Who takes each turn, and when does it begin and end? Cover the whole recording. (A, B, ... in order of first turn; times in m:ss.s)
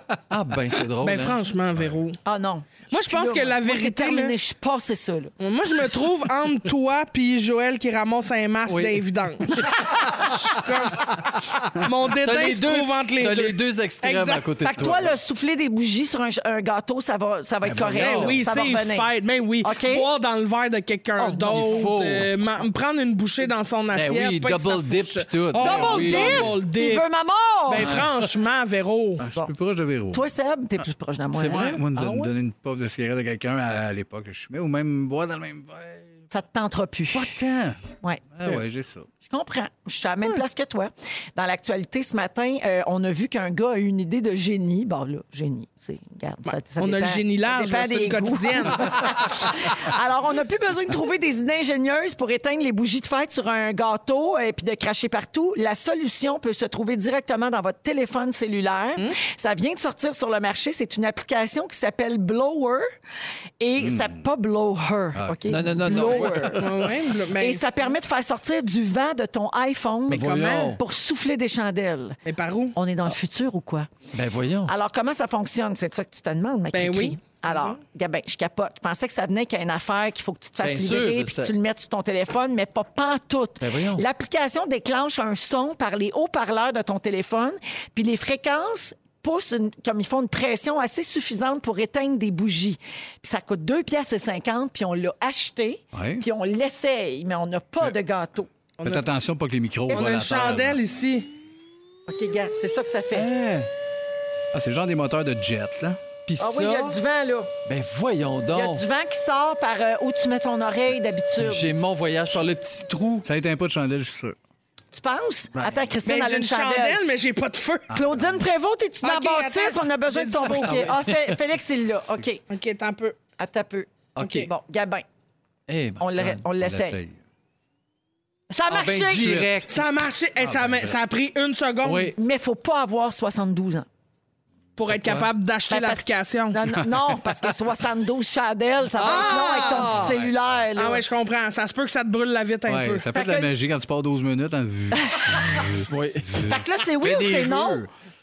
0:00.3-0:01.4 A
0:01.0-0:02.2 B
0:02.2-0:05.3 C
0:02.9-0:04.4 B
0:05.4-0:11.2 B
0:08.7-0:11.3 A
0:11.8-0:14.4 B
0:12.1-0:15.2 A
0:14.6-0:19.1 C
0:17.6-0:18.4 A
0:18.0-0:27.1 B
0:19.6-0:20.1 C
0:21.2-0:21.8 C
0:21.4-0:22.3 A
0:23.9-0:26.5 A
0:25.6-0:28.0 C
0:27.7-0:29.2 B
0:29.2-0:30.3 D
0:30.1-0:32.3 C
0:31.3-0:36.2 D
0:36.3-0:37.4 C
0:37.1-0:39.1 D
0:39.3-1:02.8 C
0:46.8-0:49.4 B
1:03.6-1:06.7 C
1:03.8-1:04.3 D
1:05.2-1:05.7 D
1:05.5-1:06.8 A
1:05.9-1:07.9 B
1:07.4-1:12.2 C
1:10.1-1:10.8 B
1:10.1-1:10.8 A
1:12.3-1:12.8 B
1:12.8-1:13.9 C
1:14.1-1:14.7 A
1:14.7-1:38.5 C
1:16.7-1:17.8 B
1:20.6-1:21.5 A
1:23.6-1:24.0 A
1:35.9-1:36.2 D
1:38.8-1:39.1 B
1:38.8-1:40.8 D
1:39.9-1:41.3 B
1:42.1-1:43.3 C
1:43.1-1:43.7 A
1:44.5-1:46.0 D
1:46.3-1:47.0 A
1:46.4-1:47.5 C
1:47.7-1:48.8 A
1:48.5-1:51.7 C
1:51.4-1:53.3 A
1:53.2-1:54.4 D
1:54.9-1:57.0 C
1:55.6-1:55.9 D
1:56.0-1:57.9 B
1:57.9-1:58.4 D
1:57.9-2:02.4 C
1:59.0-2:00.9 B
2:00.4-2:01.4 A
2:02.5-2:03.2 B
2:03.4-2:05.0 C
2:04.2-2:04.5 A
2:05.7-2:06.4 A
2:06.0-2:07.0 C
2:06.6-2:07.2 D
2:08.5-2:09.4 C
2:08.7-2:09.7 A
2:09.1-2:09.7 D
2:09.7-2:12.2 B
2:10.4-2:11.0 D
2:11.8-2:12.2 A
2:12.2-2:13.9 C
2:14.8-2:16.6 B
2:14.9-2:15.3 A
2:15.7-2:21.0 C
2:19.0-2:20.1 B
2:19.0-2:20.2 A
2:20.8-2:23.1 B
2:22.7-2:27.9 D
2:23.1-2:23.5 C
2:25.0-2:25.4 C
2:25.9-2:26.4 A
2:26.4-2:27.8 C